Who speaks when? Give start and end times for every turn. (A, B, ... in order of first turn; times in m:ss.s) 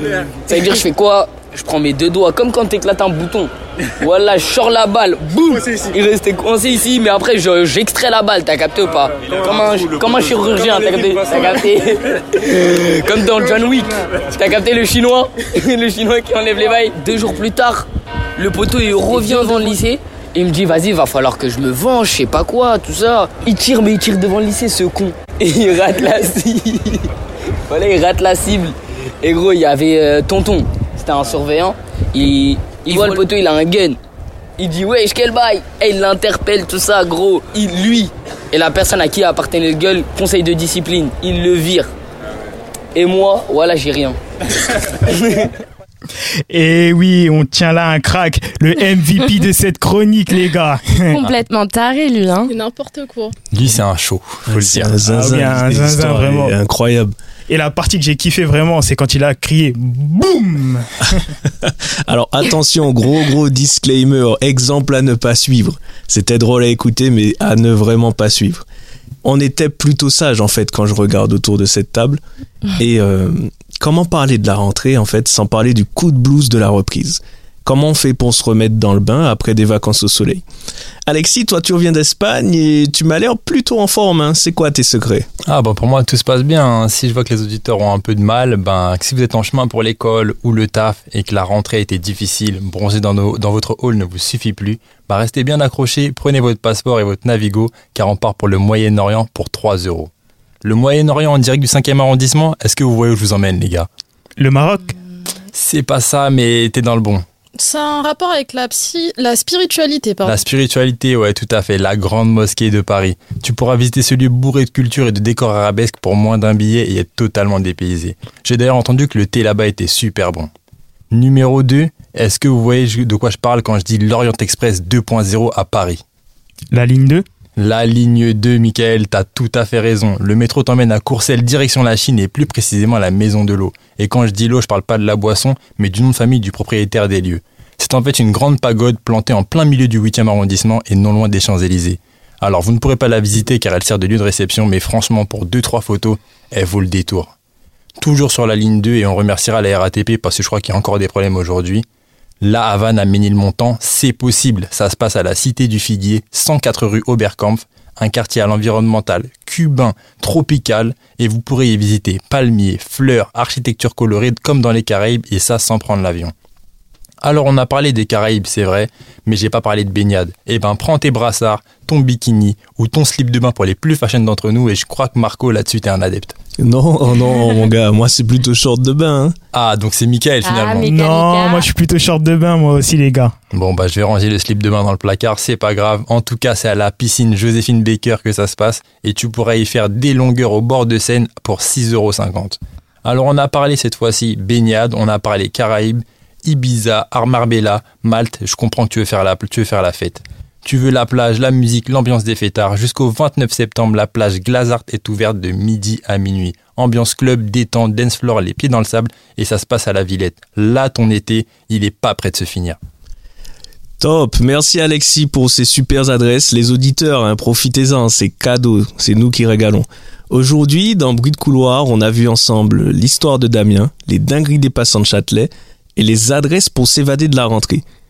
0:00.4-0:27.1 A
0:27.7-0:34.0 A
0:34.6-0:41.9 A
0:42.9-0:44.2 A
0:45.1-0:45.5 A
0:46.5-0:51.2 B
0:51.1-0:52.5 C
0:52.5-0:53.3 D
0:53.5-0:55.0 E
0:54.5-0:57.1 F
0:55.1-0:56.6 B
0:57.5-1:01.2 B
1:01.5-1:08.6 F
1:09.2-1:12.2 F
1:12.8-1:20.4 F
1:21.1-1:25.3 F
1:25.4-1:40.1 E
1:40.6-1:43.9 E
1:44.4-1:44.9 B
1:45.5-1:47.2 E
1:47.6-1:50.4 D
1:50.2-2:00.5 E
2:01.1-2:06.0 E
2:06.7-2:07.2 B
2:07.6-2:27.3 E
2:28.0-2:31.8 E
2:32.4-2:46.3 E
2:47.2-2:56.3 E
2:56.6-2:59.3 F
2:59.5-3:00.9 E
3:00.4-3:01.7 C
3:00.8-3:03.3 B
3:03.5-3:32.8 E
3:34.0-3:47.8 F